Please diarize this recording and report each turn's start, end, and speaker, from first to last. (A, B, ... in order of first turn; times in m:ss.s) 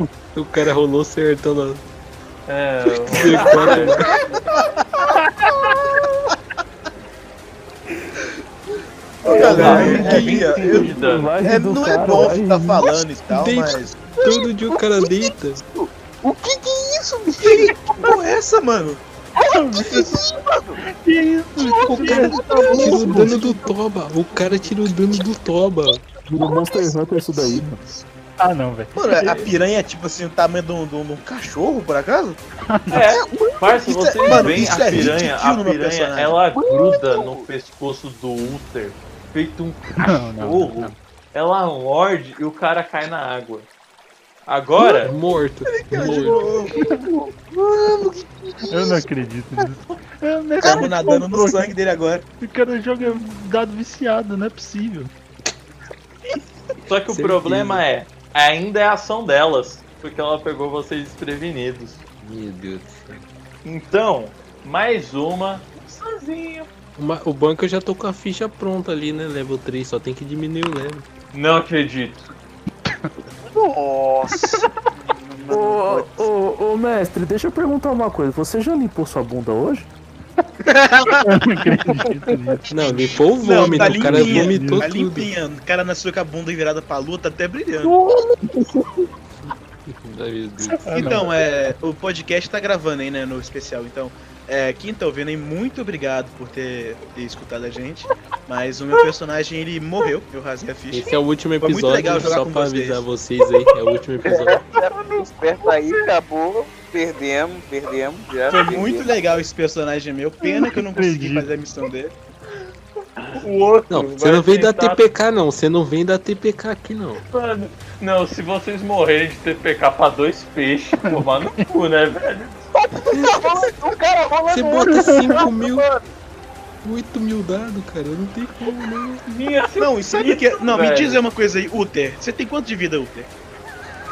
0:00.3-0:01.8 A
0:02.5-0:04.2 B
0:03.0-0:04.2 A
0:03.7-0:05.1 C
0:05.0-0:06.0 D
0:09.2-0:14.1 C
0:09.3-0:12.9 E
0:09.3-0:11.3 B
0:09.4-0:10.4 D
0:09.7-0:10.2 A
0:13.3-0:15.6 A
0:14.2-0:15.1 F
0:15.6-0:18.2 F
0:17.4-0:19.0 C
0:19.4-0:20.8 F
0:19.5-0:20.2 D
0:20.8-0:23.6 D
0:21.6-0:23.2 F
0:21.8-0:26.0 A
0:26.3-0:27.8 E
0:28.4-0:29.0 D
0:28.9-0:32.4 C
0:29.2-0:29.5 B
0:32.7-0:33.1 D
0:32.9-0:43.7 B
0:33.5-0:36.4 C
0:36.5-0:37.5 F
0:40.0-0:41.0 D
0:44.4-0:45.1 B
0:45.0-0:46.4 A
0:45.7-0:46.9 C
0:46.8-0:47.1 D
0:46.9-0:47.3 F
0:47.5-0:49.0 C
0:48.7-0:51.7 D
0:50.6-0:52.2 C
0:52.4-0:55.1 D
0:56.9-1:02.0 B
0:57.1-0:57.8 A
1:02.2-1:03.2 A
1:03.6-1:06.7 B
1:07.0-1:11.0 A
1:11.3-1:12.3 B
1:13.4-1:16.3 F
1:14.4-1:14.7 D
1:15.5-1:19.9 E
1:20.7-1:21.3 C
1:21.2-1:24.9 D
1:22.7-1:25.3 A
1:22.8-1:28.0 C
1:29.9-1:31.2 A
1:30.7-1:31.4 D
1:30.9-1:43.1 C
1:40.9-1:44.6 A
1:44.2-1:49.1 F
1:48.5-1:52.1 C
1:50.4-1:51.5 D
1:53.2-1:55.0 B
1:53.9-1:57.2 A
1:57.3-2:02.7 B
2:01.0-2:01.6 D
2:02.9-2:06.1 F
2:03.1-2:03.4 A
2:04.5-2:05.8 A
2:04.9-2:05.5 D
2:06.8-2:09.2 A
2:09.3-2:11.2 B
2:09.8-2:13.3 C